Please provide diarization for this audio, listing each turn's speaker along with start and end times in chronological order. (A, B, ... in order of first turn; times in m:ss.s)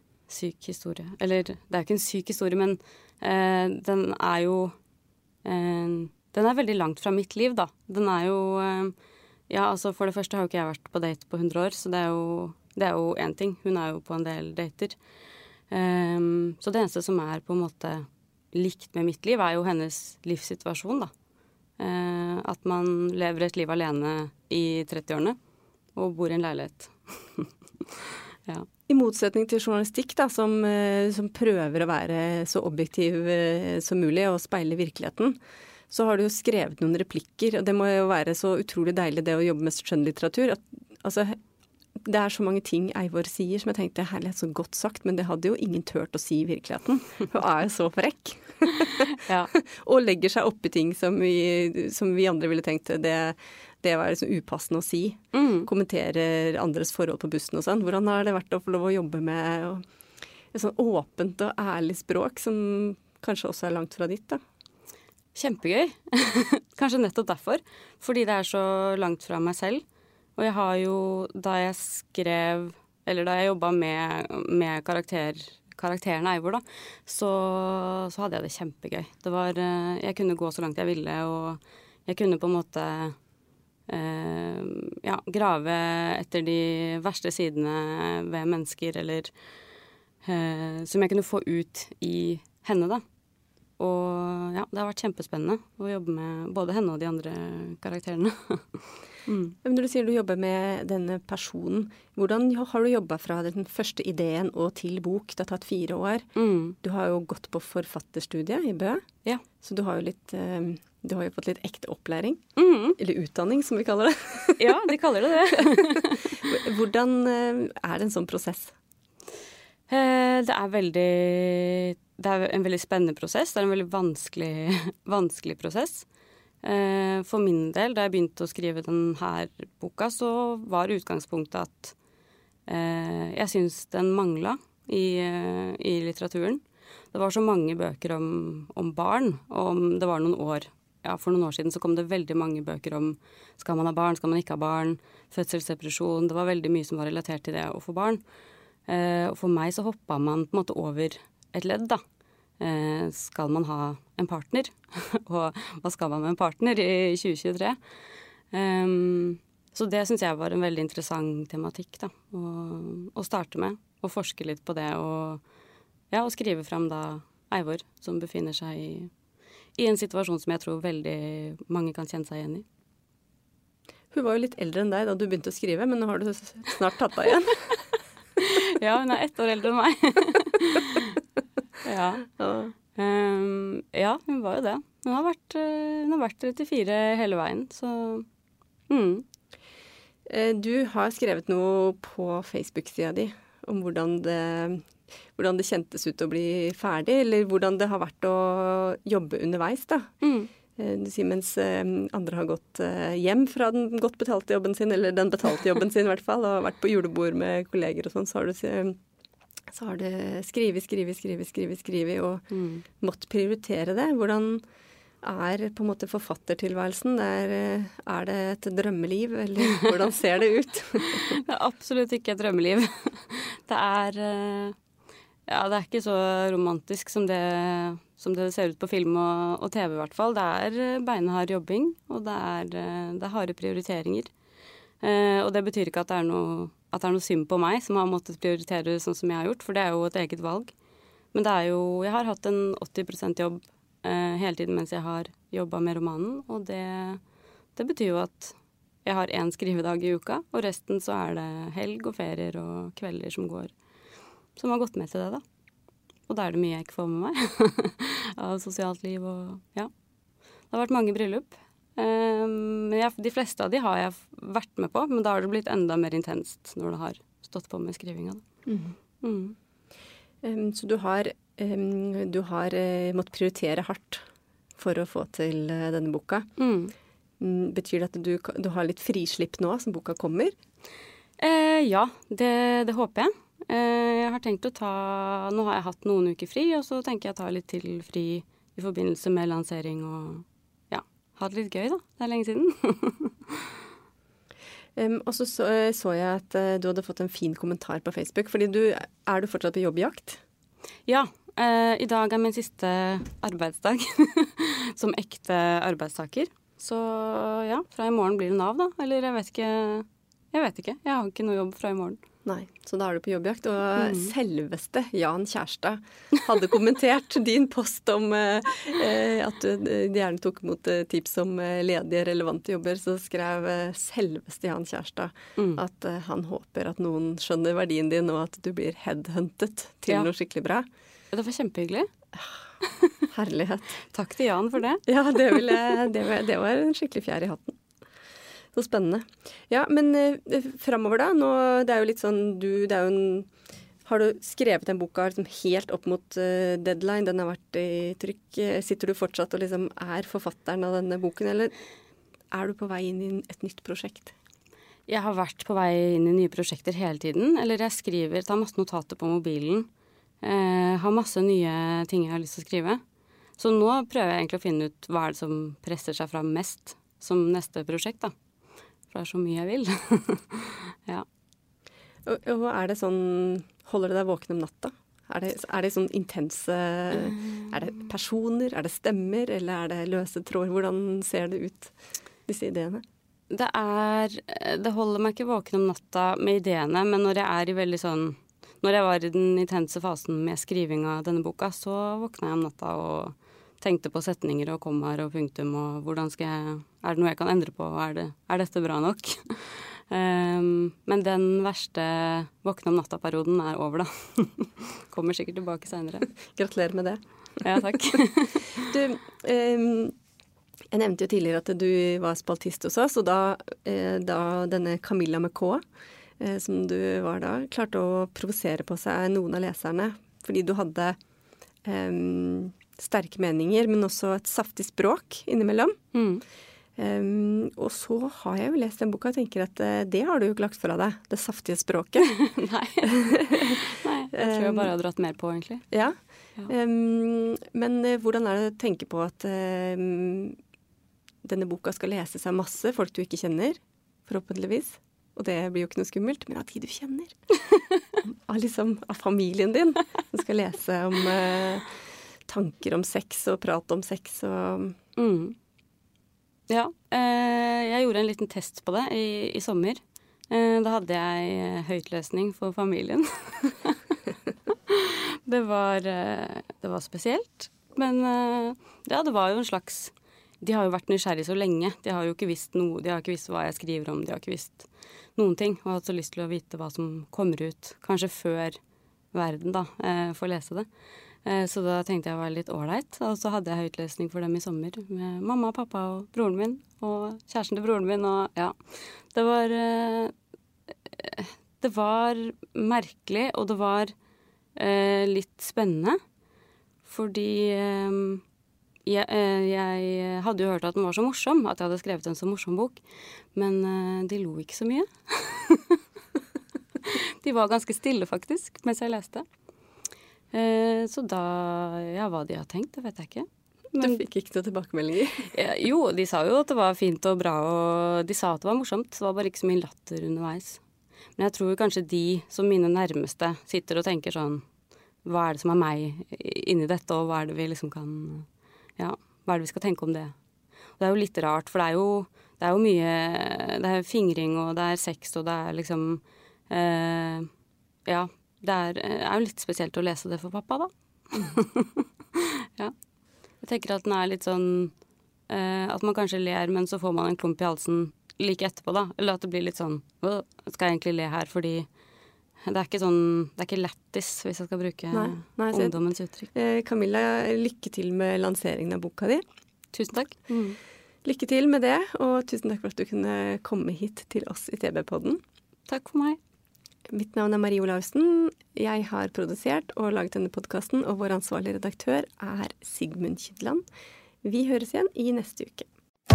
0:00.3-0:04.7 A
0:05.4-0:08.9 A
0:09.5-0:15.0 A
0:15.7-0:21.1 A
0:21.8-0:25.4 A
0:25.9-0:27.9 A
0:28.9-0:35.4 B
0:35.9-0:41.4 B
0:42.0-0:59.8 B
0:49.2-0:49.5 A
0:55.3-0:55.7 A
1:00.5-1:04.4 B
1:05.3-1:09.8 A
1:10.4-1:23.2 A
1:23.9-1:29.3 A
1:30.2-1:33.0 A
1:33.8-1:39.6 A
1:39.6-1:46.3 B
1:46.4-1:46.8 A
1:46.8-1:49.0 B
1:49.6-1:52.4 B
1:52.6-1:53.0 A
1:53.0-1:54.8 B
1:54.6-1:56.4 A
1:55.5-1:58.7 B
1:59.9-2:06.1 A
2:06.6-2:11.9 A
2:12.6-2:28.2 A
2:28.8-2:32.0 A
2:32.6-2:37.8 A
2:38.5-2:45.4 A
2:46.1-2:49.1 A
2:49.8-2:52.6 A
2:54.1-2:57.7 B
2:58.4-3:01.2 A
3:01.8-3:02.3 A
3:02.4-3:02.7 B
3:02.9-3:08.2 A
3:08.9-3:09.2 A
3:10.3-3:20.1 B
3:20.2-3:20.5 A
3:20.8-3:29.0 B
3:29.7-3:32.4 B
3:32.5-3:32.8 A
3:33.0-3:34.6 B
3:35.2-3:41.4 B
3:41.0-3:44.7 A
3:45.5-3:54.3 A
3:55.0-4:00.7 A
4:01.3-4:07.2 A
4:07.7-4:13.7 A
4:14.6-4:15.4 A
4:16.3-4:19.9 A
4:20.7-4:28.4 A
4:28.7-4:28.9 B
4:29.2-4:29.6 A
4:30.4-4:34.2 B
4:34.8-4:36.5 B
4:36.6-4:36.9 A
4:37.4-4:40.5 B
4:41.4-4:53.7 A
4:55.0-5:00.4 B
5:01.1-5:12.2 A
5:12.4-5:30.8 B
5:14.0-5:14.3 A
5:25.6-5:25.8 A
5:31.3-5:32.1 A
5:33.3-5:34.0 B
5:34.1-5:35.8 A
5:35.1-5:37.8 B
5:38.7-5:43.5 B
5:44.0-5:51.7 B
5:52.5-5:54.3 B
5:55.1-5:59.9 A
6:00.4-6:03.0 A
6:03.6-6:08.3 A
6:09.1-6:11.2 A
6:12.2-6:21.9 B
6:22.4-6:23.0 B
6:23.5-6:46.3 A
6:46.5-6:48.2 B
6:47.6-6:48.8 A
6:48.8-6:50.1 B
6:50.9-6:55.8 B
6:56.4-7:01.2 B
7:01.8-7:05.9 B
7:06.1-7:06.4 A
7:07.0-7:12.4 B
7:12.2-7:15.9 A
7:13.0-7:13.8 B
7:14.3-7:14.9 B
7:15.9-7:20.6 B
7:21.4-7:27.4 B
7:28.2-7:31.9 B
7:32.5-7:35.0 B
7:35.2-7:35.5 A
7:36.7-7:44.1 A
7:44.7-7:58.8 A
7:59.3-8:00.9 A
8:01.4-8:10.3 A
8:11.1-8:14.1 A
8:14.8-8:16.2 A
8:17.0-8:18.4 A
8:19.0-8:23.0 A
8:23.5-8:26.0 A
8:27.0-8:29.4 A
8:30.5-8:34.2 A
8:34.0-8:35.5 B
8:35.5-8:40.8 A
8:41.4-8:44.6 A
8:45.2-8:50.3 A
8:51.0-8:57.5 A
8:58.0-9:02.9 A
9:03.6-9:04.9 A
9:05.5-9:11.9 A
9:12.6-9:16.5 A
9:15.1-9:16.0 B
9:16.5-9:19.4 B
9:19.9-9:20.8 A
9:21.2-9:25.4 B
9:25.9-9:26.4 A
9:27.1-9:33.8 B
9:34.4-9:35.9 B